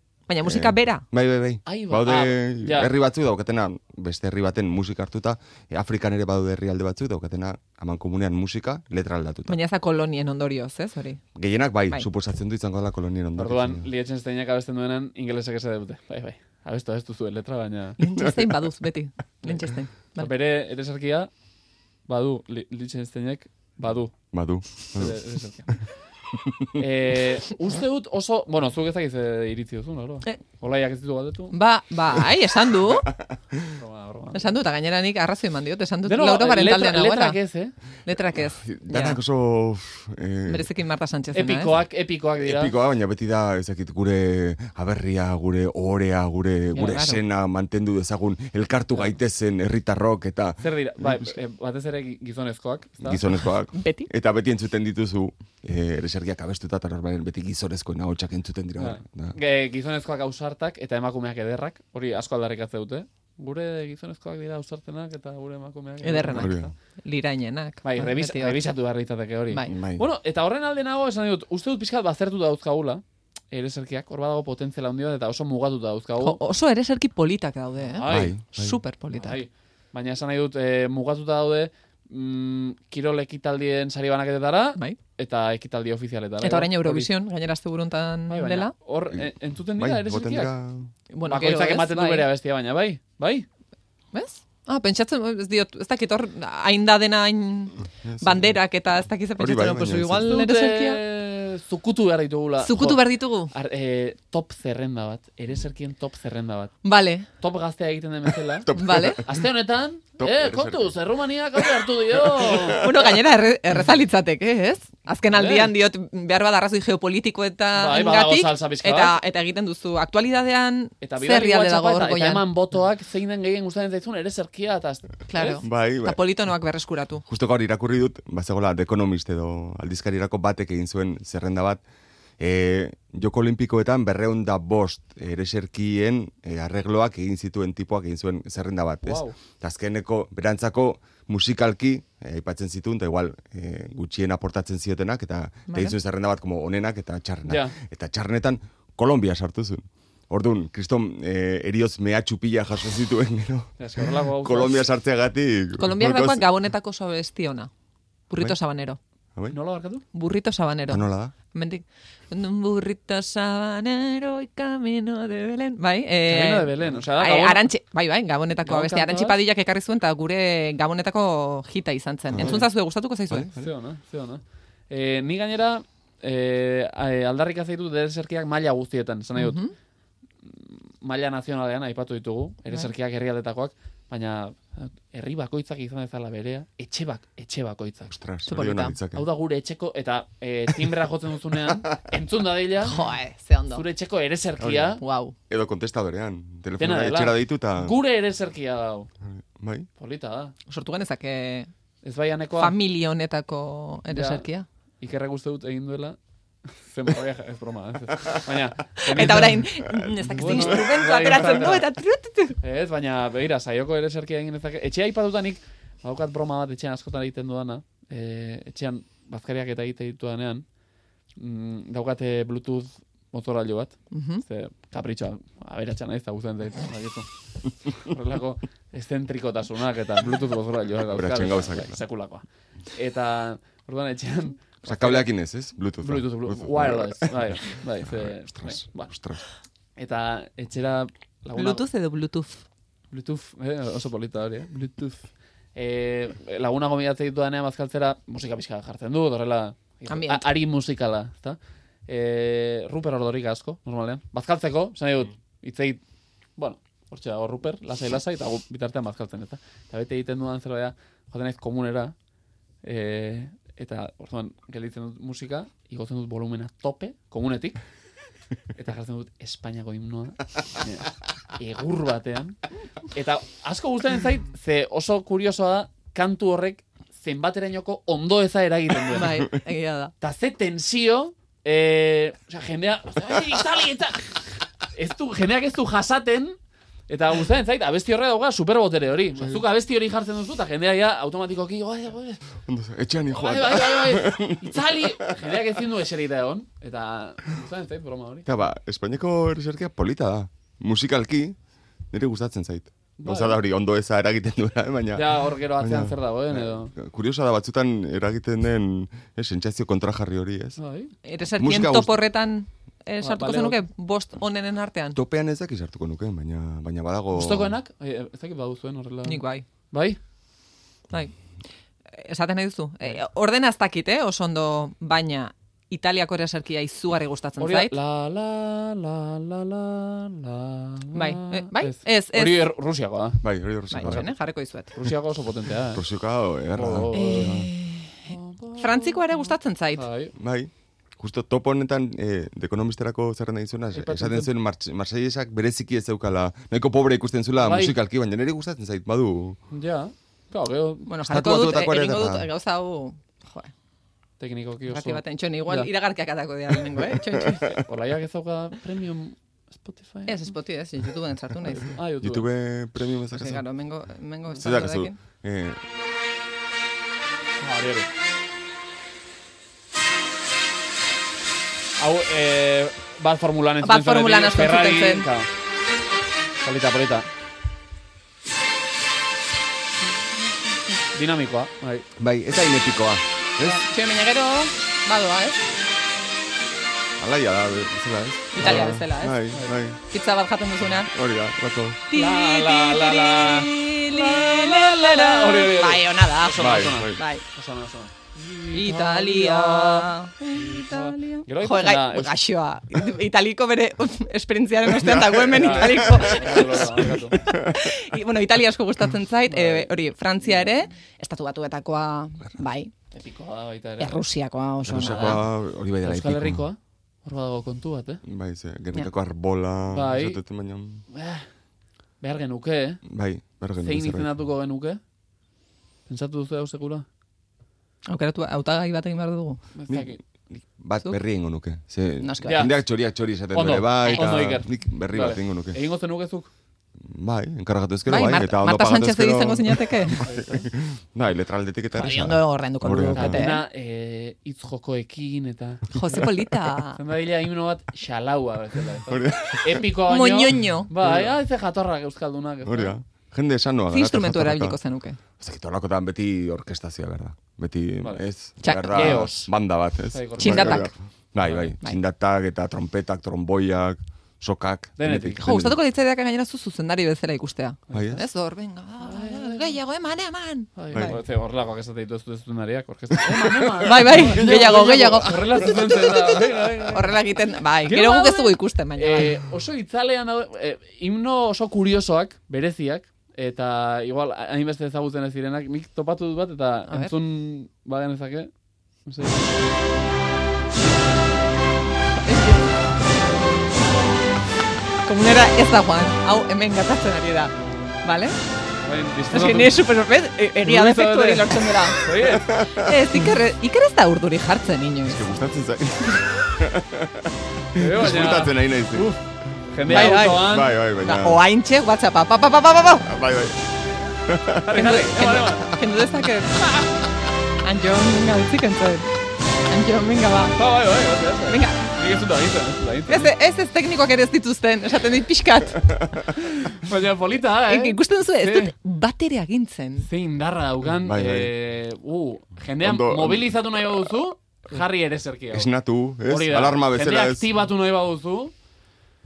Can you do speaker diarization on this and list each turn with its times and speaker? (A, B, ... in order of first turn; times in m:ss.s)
0:00.3-0:01.0 A
0:00.4-0:09.6 B
0:01.7-0:02.9 C
0:09.5-0:11.2 A
0:11.4-0:13.9 B
0:13.4-0:18.0 C
0:18.0-0:20.3 A
0:18.2-0:18.7 B
0:19.4-0:21.3 C
0:22.1-0:24.1 C
0:24.3-0:25.2 B
0:25.0-0:25.8 C
0:26.3-0:26.7 B
0:26.8-0:31.6 C
0:31.5-0:33.1 A
0:33.1-0:33.8 B
0:33.8-0:34.5 C
0:34.3-0:37.4 A
0:36.0-0:37.7 C
0:38.1-0:39.2 A
0:38.4-0:40.7 B
0:40.5-0:41.8 A
0:41.3-0:42.8 C
0:42.4-0:51.3 B
0:46.7-0:47.2 A
0:50.6-0:53.2 C
0:53.0-0:59.4 B
0:53.7-0:54.1 A
0:58.8-1:06.7 C
1:06.0-1:08.6 A
1:06.3-1:06.7 B
1:07.8-1:16.4 C
1:09.5-1:09.8 A
1:09.7-1:10.0 B
1:16.2-1:19.4 A
1:17.8-1:18.4 C
1:18.1-1:18.8 B
1:19.1-1:27.1 C
1:26.4-1:28.7 A
1:28.3-1:30.6 C
1:29.1-1:30.9 B
1:31.1-1:32.3 A
1:31.3-1:33.5 C
1:34.1-1:41.0 A
1:38.0-1:38.6 B
1:39.4-1:40.3 B
1:40.2-1:46.7 C
1:42.6-1:43.5 A
1:46.8-1:47.3 A
1:47.4-1:48.7 C
1:48.6-1:49.4 B
1:48.8-1:49.2 A
1:49.2-1:52.9 C
1:50.2-1:51.0 B
1:51.6-1:53.0 B
1:52.6-2:02.4 A
1:55.3-1:55.7 C
1:57.7-1:59.2 C
2:01.0-2:05.6 C
2:05.3-2:07.2 A
2:05.6-2:06.2 B
2:07.3-2:11.8 B
2:12.4-2:36.5 B
2:19.0-2:19.4 C
2:25.7-2:26.0 A
2:27.4-2:27.8 C
2:33.8-2:34.9 C
2:35.8-2:37.7 A
2:38.3-2:39.0 A
2:39.5-2:40.0 C
2:40.1-2:53.5 A
2:40.9-2:41.4 B
2:46.3-2:47.6 C
2:48.6-2:49.4 C
2:52.3-2:52.6 B
2:52.4-2:52.6 C
2:53.3-2:53.7 B
2:53.6-2:59.6 C
2:59.4-2:59.7 A
3:00.4-3:08.1 C
3:08.1-3:09.3 B
3:08.5-3:09.0 A
3:09.1-3:13.0 C
3:12.8-3:13.8 A
3:13.7-3:15.0 C
3:14.6-3:18.0 B
3:15.0-3:15.4 A
3:16.8-3:19.1 C
3:19.2-3:19.9 B
3:20.0-3:20.5 C
3:20.7-3:21.7 A
3:22.0-3:22.8 C
3:22.6-3:24.7 A
3:24.1-3:24.4 C
3:25.0-3:26.2 C
3:26.8-3:29.7 C
3:29.0-3:32.6 A
3:30.0-3:30.9 B
3:30.4-3:31.9 C
3:32.6-3:40.6 C
3:41.4-3:47.3 C
3:44.1-3:44.4 A
3:47.9-3:55.3 C
3:51.1-3:52.0 B
3:54.8-3:59.4 B
3:56.0-3:59.1 C
4:00.0-4:01.8 C
4:01.6-4:02.6 A
4:03.1-4:16.0 C
4:10.1-4:10.5 A
4:16.6-4:22.2 C
4:22.8-4:27.8 C
4:28.8-4:32.6 C
4:33.1-4:39.4 C
4:39.1-4:40.1 A
4:40.2-4:46.6 C
4:47.1-4:52.4 C
4:52.7-4:55.7 B
4:53.3-4:58.5 C
4:58.5-5:01.6 B
5:02.1-5:10.8 B
5:03.2-5:03.6 C
5:05.1-5:06.9 C
5:10.8-5:11.1 C
5:11.2-5:15.2 A
5:11.6-5:12.2 B
5:13.2-5:13.8 C
5:15.1-5:17.7 B
5:17.3-5:20.2 C
5:19.2-5:19.6 A
5:22.1-5:28.0 A
5:27.6-5:33.4 C
5:31.1-5:32.7 A
5:33.4-5:34.3 B
5:33.9-5:35.0 A
5:34.0-5:34.3 C
5:34.9-5:36.0 C
5:35.9-5:37.7 B
5:36.7-5:37.6 C
5:37.1-5:40.0 A
5:38.3-5:40.3 C
5:40.4-5:49.6 B
5:43.9-5:44.5 C
5:47.6-5:48.0 C
5:49.7-5:51.1 C
5:51.1-5:53.7 A
5:51.3-5:52.5 B
5:54.4-5:55.9 C
5:54.9-5:57.7 A
5:56.9-5:57.7 B
5:57.6-6:00.4 C
6:00.3-6:02.0 A
6:01.9-6:02.5 C
6:02.2-6:03.7 B
6:03.3-6:05.2 A
6:04.6-6:05.8 B
6:07.6-6:08.1 C
6:12.0-6:15.5 C
6:13.8-6:15.3 A
6:16.6-6:17.3 C
6:21.1-6:22.1 C
6:22.2-6:23.8 B
6:23.6-6:25.6 A
6:27.2-6:30.0 B
6:28.5-6:29.4 A
6:28.6-6:28.9 C
6:29.5-6:29.8 C
6:30.1-6:31.1 A
6:31.1-6:32.0 B
6:32.1-6:37.4 A
6:32.1-6:42.3 C
6:36.6-6:37.2 B
6:38.7-6:52.9 A
6:44.9-6:47.9 B
6:45.5-6:47.4 C
6:49.5-6:49.9 C
6:53.1-6:54.2 C
6:54.0-6:55.4 A
6:54.9-6:56.7 B
6:54.9-6:55.4 C
6:56.0-6:58.2 C
6:58.2-7:01.0 B
6:59.9-7:00.4 C
7:01.1-7:01.5 C
7:02.2-7:03.0 C
7:03.1-7:04.4 B
7:03.8-7:05.0 C
7:06.1-7:07.0 C
7:08.1-7:09.6 A
7:09.8-7:10.2 C
7:09.9-7:15.8 B
7:12.2-7:12.7 A
7:12.4-7:12.8 C
7:13.5-7:16.5 C
7:14.0-7:14.4 A
7:17.0-7:23.5 B
7:18.1-7:20.3 A
7:20.2-7:20.7 C
7:21.9-7:23.6 A
7:23.1-7:26.3 C
7:25.9-7:27.0 A
7:27.0-7:33.0 C
7:29.1-7:29.9 B
7:30.1-7:30.9 A
7:31.0-7:31.3 B
7:32.6-7:34.8 B
7:33.9-7:35.2 A
7:35.4-7:45.8 B
7:38.6-7:39.3 A
7:38.9-7:39.5 C
7:40.1-7:41.7 C
7:40.4-7:40.9 A
7:45.0-7:45.5 C
7:45.4-7:51.2 A
7:47.9-7:48.2 B
7:49.0-7:49.8 C
7:50.8-7:57.2 C
7:50.9-7:51.2 B
7:53.2-7:55.8 B
7:53.8-7:59.3 A
7:57.8-8:08.5 C
8:06.9-8:07.1 A
8:09.1-8:09.5 C
8:12.2-8:12.7 A
8:15.0-8:18.4 A
8:18.8-8:19.8 C
8:19.3-8:22.0 A
8:20.6-8:22.6 C
8:22.2-8:23.0 B
8:22.7-8:25.2 A
8:25.1-8:29.1 B
8:27.8-8:30.8 C
8:29.8-8:31.4 B
8:29.9-8:33.1 A
8:33.0-8:33.6 B
8:34.3-8:34.7 B
8:34.6-8:35.7 C
8:34.7-8:36.8 A
8:36.6-8:36.9 C
8:37.6-8:39.1 A
8:39.7-8:40.7 A
8:40.6-8:43.3 C
8:41.5-8:41.9 A
8:43.1-8:46.5 A
8:46.4-8:48.7 C
8:47.7-8:50.1 A
8:50.0-8:55.7 C
8:51.0-8:51.5 B
8:52.8-8:53.9 B
8:55.5-8:57.5 B
8:56.2-8:58.5 C